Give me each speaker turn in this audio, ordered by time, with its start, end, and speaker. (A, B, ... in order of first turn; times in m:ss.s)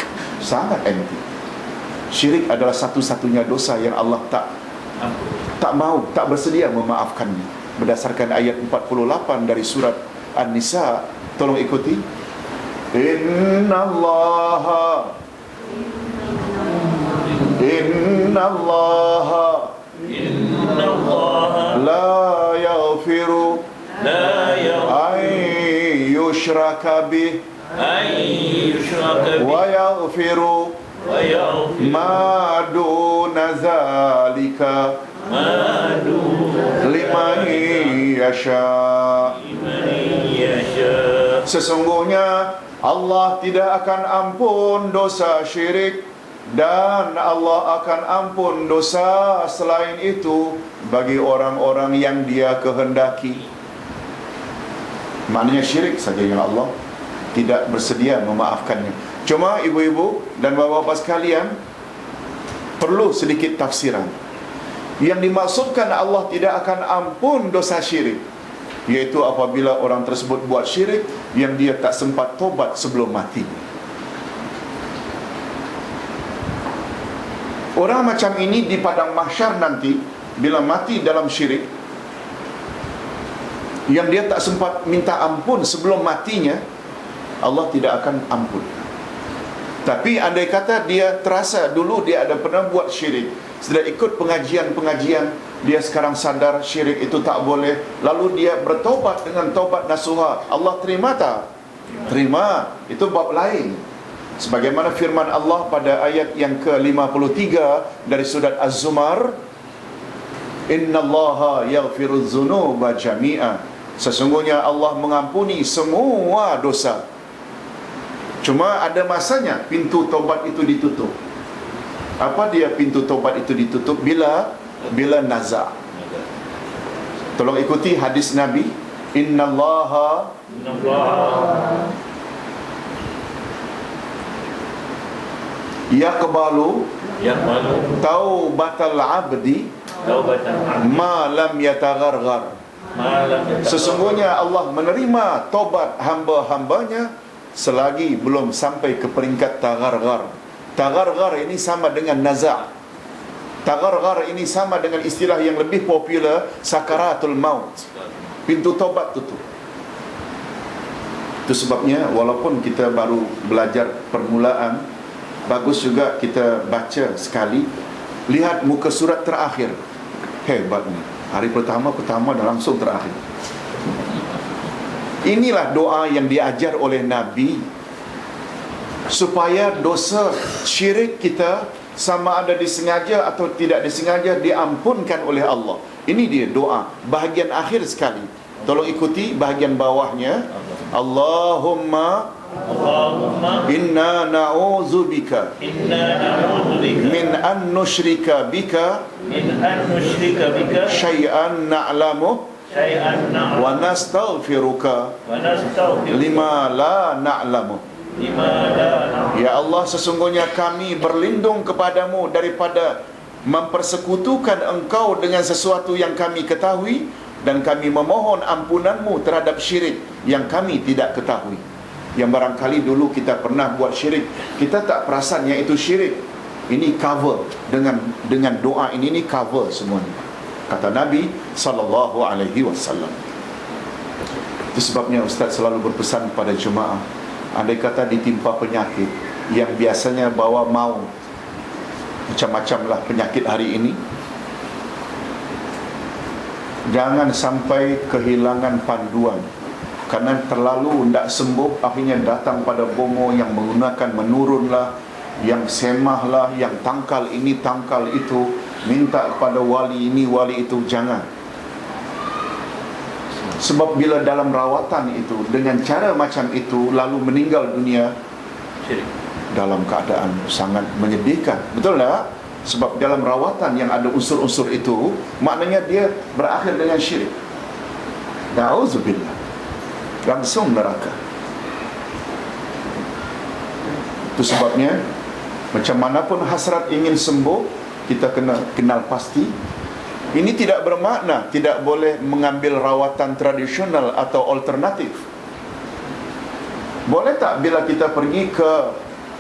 0:00.4-0:01.2 A
0:02.1-0:04.5 A
0:05.5-0:12.0 A
0:12.9-0:15.2 A
0:17.5-0:19.8 A
0:20.1-0:21.8 B
0:21.7-0:23.7 A
0:24.0-0:25.0 B
0:24.8-0:27.4 A
0:27.7-0:29.6 B
0:29.4-0:30.8 A
0:31.0-0:32.0 B
0:31.8-0:35.0 A
0:35.2-0:37.6 B
0:36.8-0:39.4 A
0:39.4-0:41.4 B
0:41.4-0:53.4 A
0:55.3-0:56.7 A
0:57.3-1:01.5 A
1:02.8-1:04.2 A
1:05.0-1:08.2 A
1:08.9-1:13.7 A
1:17.8-1:21.7 A
1:23.9-1:26.6 A
1:27.4-1:28.9 A
1:29.8-1:41.5 A
1:42.0-1:43.8 A
1:44.4-1:49.4 A
1:50.7-1:57.0 A
1:58.4-2:01.1 A
2:02.2-2:05.8 A
2:07.4-2:10.4 A
2:10.5-2:11.8 B
2:15.9-2:16.9 A
2:17.2-2:18.0 B
2:17.9-2:19.7 A
2:20.0-2:20.9 B
2:20.8-2:22.5 A
2:22.9-2:24.1 B
2:23.6-2:32.7 A
2:33.6-2:37.9 A
2:38.4-2:39.4 A
2:41.5-2:44.8 A
2:45.4-2:47.7 A
2:48.3-2:49.8 A
2:50.4-2:53.2 A
2:55.2-2:57.7 A
2:59.1-3:12.3 A
3:12.6-3:13.7 B
3:13.6-3:15.6 A
3:15.6-3:17.2 B
3:16.9-3:19.1 A
3:19.2-3:21.0 B
3:20.7-3:22.5 A
3:22.7-3:23.7 B
3:23.5-3:25.2 A
3:25.2-3:26.3 B
3:26.1-3:27.8 A
3:28.2-3:29.3 B
3:29.3-3:41.6 A
3:42.1-3:53.3 A
3:54.7-4:01.1 A
4:02.3-4:04.0 A
4:06.9-4:09.4 A
4:10.1-4:14.9 A
4:15.4-4:21.2 A
4:23.5-4:28.1 A
4:29.5-4:37.3 A
4:38.5-4:39.4 A
4:40.2-4:41.2 A
4:44.4-4:45.0 A
4:45.7-4:49.5 A
4:50.3-4:55.2 A
4:57.1-4:59.0 A